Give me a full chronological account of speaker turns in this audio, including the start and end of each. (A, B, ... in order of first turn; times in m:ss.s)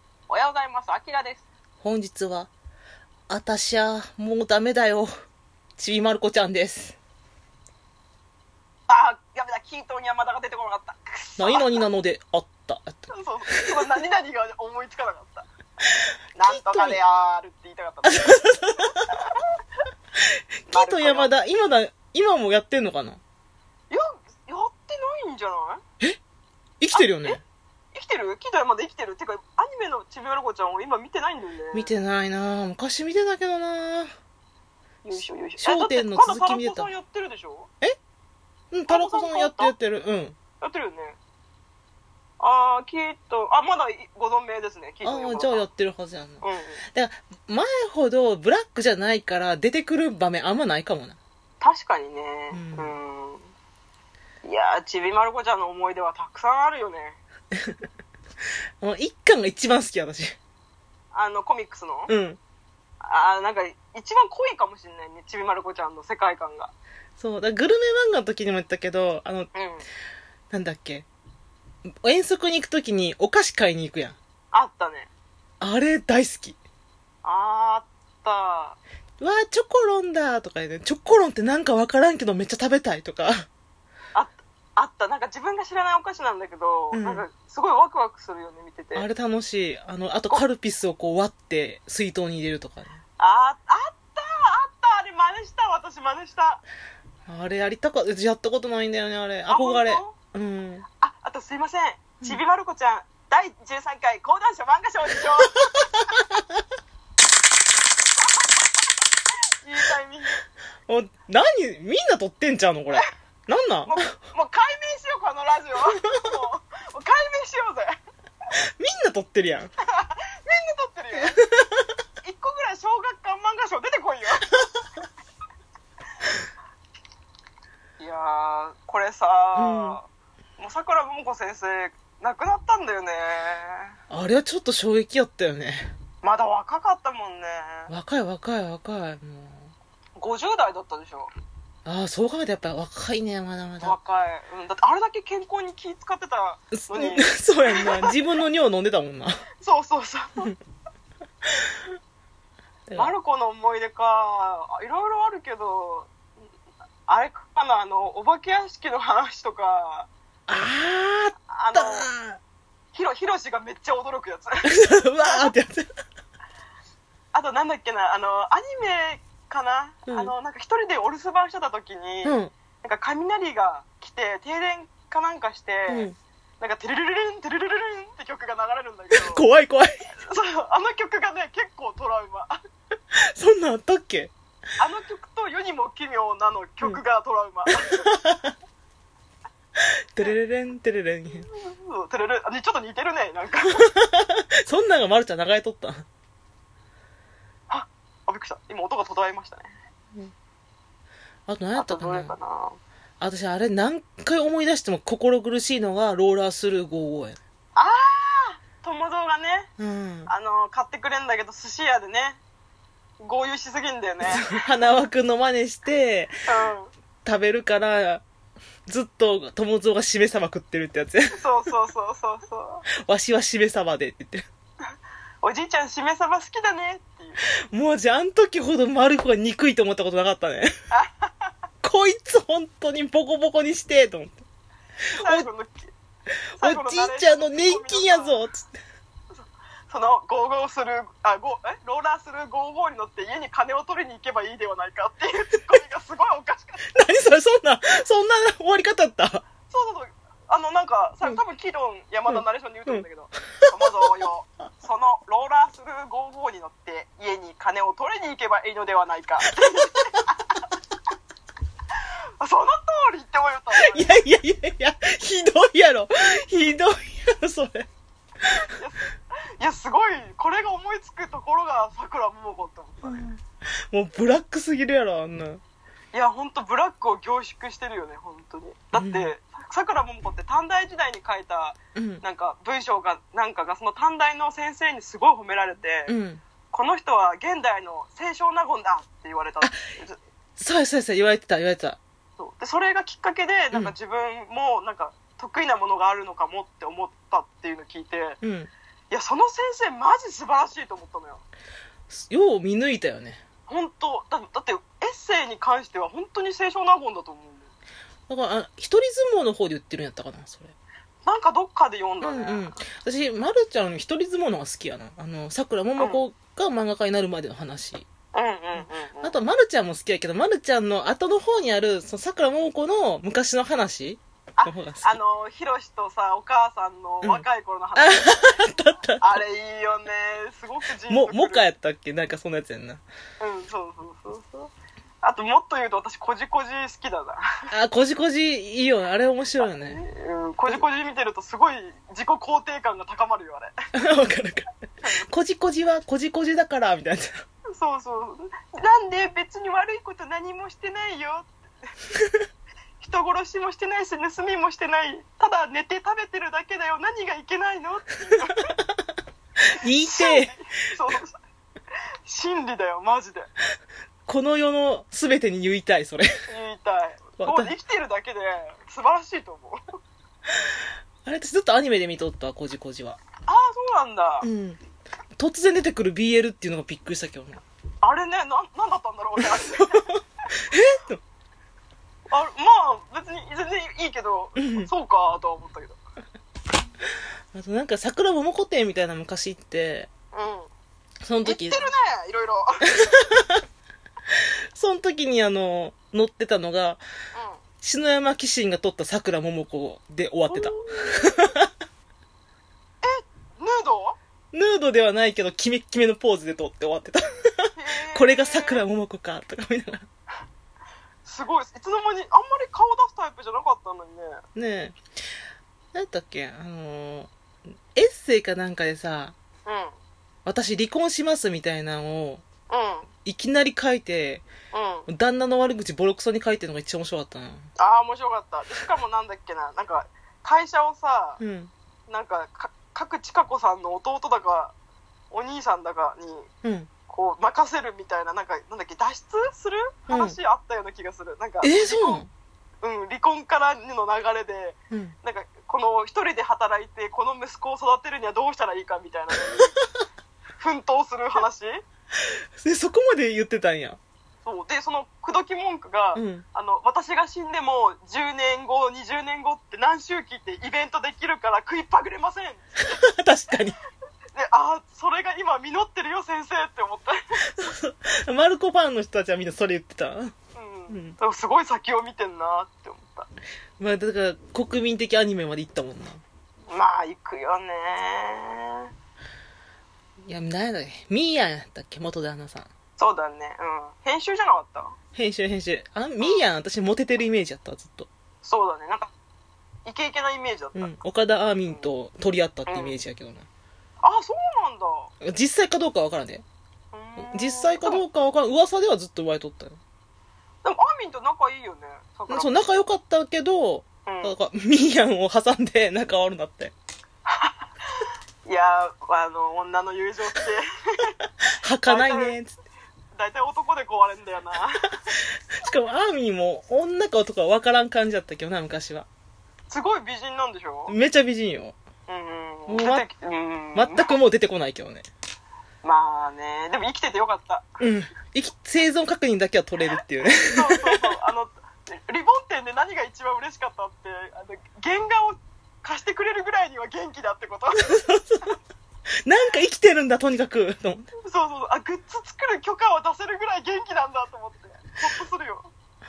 0:00.3-0:01.5 A
0:01.8-0:02.5 B
0:03.3-0:05.1 B
0:05.8-0:07.0 B
0:08.9-0:11.8 A
0:11.4-0:13.8 B
0:13.1-0:15.5 A
0:16.4-0:19.0 A
0:16.4-0:17.0 B
0:18.1-0:19.1 B
0:20.3-0:23.2 B
0:20.7-0:21.3 A
0:23.9-0:25.8 A
0:26.8-0:27.4 B
0:26.9-0:27.4 A
0:27.9-0:31.9 A
0:31.7-0:34.1 B
0:35.0-0:37.7 A
0:35.6-0:36.9 B
0:38.7-0:40.4 B
0:38.9-0:39.7 A
0:40.6-0:41.2 A
0:42.4-0:45.7 A
0:45.0-0:46.4 B
0:46.4-0:46.8 A
0:46.9-0:51.2 B
0:51.6-0:53.5 A
0:52.5-0:52.9 B
0:54.4-0:57.2 A
0:58.8-1:00.4 B
1:01.1-1:02.1 A
1:02.1-1:02.4 B
1:03.0-1:06.7 A
1:07.2-1:09.5 B
1:09.5-1:09.8 A
1:10.5-1:11.1 B
1:12.0-1:14.2 B
1:14.5-1:15.1 A
1:15.6-1:16.6 B
1:17.2-1:18.8 A
1:19.2-1:23.4 B
1:24.2-1:29.1 A
1:26.9-1:27.3 B
1:29.0-1:33.0 B
1:33.2-1:36.6 A
1:37.3-1:40.8 B
1:39.5-1:40.2 A
1:41.0-1:45.9 A
1:48.2-1:48.9 A
1:49.6-1:50.4 A
1:50.9-1:54.1 B
1:53.9-1:58.0 A
1:58.8-1:59.7 B
1:59.9-2:01.4 A
2:01.4-2:01.9 B
2:02.2-2:04.6 A
2:08.0-2:10.0 A
2:09.6-2:10.0 B
2:10.6-2:14.0 A
2:14.1-2:15.9 B
2:16.2-2:17.9 A
2:17.9-2:19.7 B
2:20.2-2:21.3 A
2:21.8-2:24.0 B
2:23.8-2:28.2 A
2:26.7-2:29.4 B
2:29.6-2:30.5 A
2:32.9-2:33.1 B
2:33.0-2:36.1 A
2:37.1-2:40.1 A
2:40.5-2:42.4 B
2:41.5-2:42.1 A
2:42.9-2:44.5 A
2:44.6-2:45.9 B
2:45.2-2:45.5 A
2:47.3-2:56.1 A
2:50.1-2:50.3 B
2:52.2-2:52.5 B
2:55.9-2:56.2 B
2:56.6-2:59.4 A
2:59.1-3:00.0 B
3:00.2-3:02.6 A
3:03.4-3:04.3 B
3:04.8-3:08.1 A
3:07.7-3:08.5 B
3:09.8-3:11.5 B
3:11.3-3:13.9 A
3:13.9-3:16.0 B
3:17.7-3:19.7 A
3:21.5-3:22.3 B
3:21.8-3:22.8 A
3:23.2-3:27.4 B
3:27.8-3:29.7 A
3:29.8-3:30.3 B
3:30.3-3:32.4 A
3:33.2-3:34.6 A
3:34.3-3:36.3 B
3:36.5-3:36.9 A
3:37.2-3:38.2 B
3:38.9-3:41.4 B
3:41.3-3:42.8 A
3:43.0-3:44.4 B
3:45.4-3:47.4 A
3:47.7-3:50.7 B
3:50.9-3:51.5 A
3:51.8-3:54.4 B
3:55.1-3:55.9 A
3:55.2-3:55.5 B
3:56.6-3:58.7 B
3:56.6-3:58.4 A
3:59.3-4:06.9 A
4:06.9-4:09.5 B
4:09.7-4:20.7 A
4:22.4-4:24.2 A
4:23.8-4:27.9 B
4:28.7-4:29.0 A
4:29.6-4:33.3 A
4:33.0-4:33.4 B
4:33.9-4:35.6 B
4:36.1-4:46.2 A
4:38.9-4:39.3 B
4:42.0-4:42.2 B
4:46.1-4:46.4 B
4:46.7-4:50.2 A
4:50.6-4:52.0 B
4:52.4-4:58.4 A
4:58.4-4:58.7 B
4:59.1-5:01.4 A
5:02.1-5:03.4 B
5:03.7-5:07.7 A
5:08.3-5:10.7 B
5:11.2-5:12.6 A
5:12.2-5:18.1 B
5:16.0-5:16.2 A
5:18.3-5:19.4 A
5:19.2-5:25.2 B
5:24.6-5:28.6 A
5:28.0-5:29.4 B
5:29.2-5:31.6 A
5:31.1-5:33.0 B
5:33.4-5:34.7 A
5:35.2-5:37.4 A
5:37.7-5:40.0 B
5:39.7-5:43.7 A
5:44.0-5:47.4 B
5:47.7-5:51.6 A
5:53.0-5:58.7 A
5:59.8-6:00.5 B
6:00.0-6:01.4 A
6:02.3-6:03.5 A
6:04.3-6:06.3 B
6:06.5-6:09.8 A
6:07.4-6:07.7 B
6:11.2-6:13.2 B
6:13.4-6:14.5 A
6:14.4-6:14.8 B
6:15.4-6:17.6 B
6:18.0-6:20.1 A
6:19.4-6:20.0 B
6:20.6-6:21.2 B
6:22.3-6:26.0 A
6:24.6-6:24.9 B
6:27.5-6:30.1 B
6:30.3-6:30.7 A
6:31.2-6:31.9 B
6:31.4-6:33.2 A
6:33.0-6:33.6 B
6:34.3-6:37.0 B
6:37.4-6:37.6 A
6:37.8-6:41.7 B
6:40.5-6:41.3 A
6:43.0-6:44.2 A
6:44.5-6:50.0 B
6:47.8-6:48.8 A
6:51.2-6:54.4 A
6:54.6-6:55.0 B
6:55.9-6:57.3 B
6:57.9-6:59.4 B
6:59.7-6:59.9 A
7:00.4-7:02.5 B
7:02.7-7:03.1 A
7:03.2-7:04.4 B
7:04.7-7:05.1 A
7:05.1-7:07.7 B
7:07.8-7:11.4 A
7:11.4-7:11.7 B
7:12.1-7:14.7 A
7:15.3-7:16.5 A
7:16.6-7:16.9 B
7:17.1-7:22.2 A
7:20.1-7:20.4 B
7:21.6-7:22.3 B
7:22.8-7:29.7 A
7:30.6-7:31.8 A
7:32.2-7:34.0 B
7:34.4-7:43.0 A
7:36.2-7:36.4 B
7:42.9-7:43.8 B
7:44.4-7:47.2 A
7:47.5-7:50.4 B
7:50.6-7:53.3 A
7:50.9-7:51.2 B
7:53.8-7:56.2 B
7:56.7-7:58.9 A
8:00.3-8:02.7 B
8:03.0-8:05.0 A
8:05.1-8:08.1 B
8:08.4-8:09.1 A
8:09.9-8:11.0 A
8:10.8-8:13.5 B
8:12.7-8:13.0 A
8:14.0-8:15.1 A
8:15.2-8:16.4 B
8:16.9-8:18.0 A
8:17.2-8:19.8 B
8:20.6-8:22.8 A
8:22.3-8:26.7 B
8:24.0-8:24.4 A
8:27.3-8:27.6 A
8:28.5-8:31.1 A
8:31.6-8:32.5 B
8:31.9-8:32.4 A
8:33.2-8:35.0 A
8:35.6-8:39.1 B
8:39.7-8:41.0 A
8:40.9-8:41.8 B
8:42.1-8:44.1 A
8:42.7-8:43.1 B
8:43.8-8:45.1 B
8:45.8-8:47.7 A
8:47.8-8:51.1 B
8:50.4-8:58.0 A
8:57.8-8:58.5 B
8:59.3-9:01.1 B
9:01.2-9:05.7 A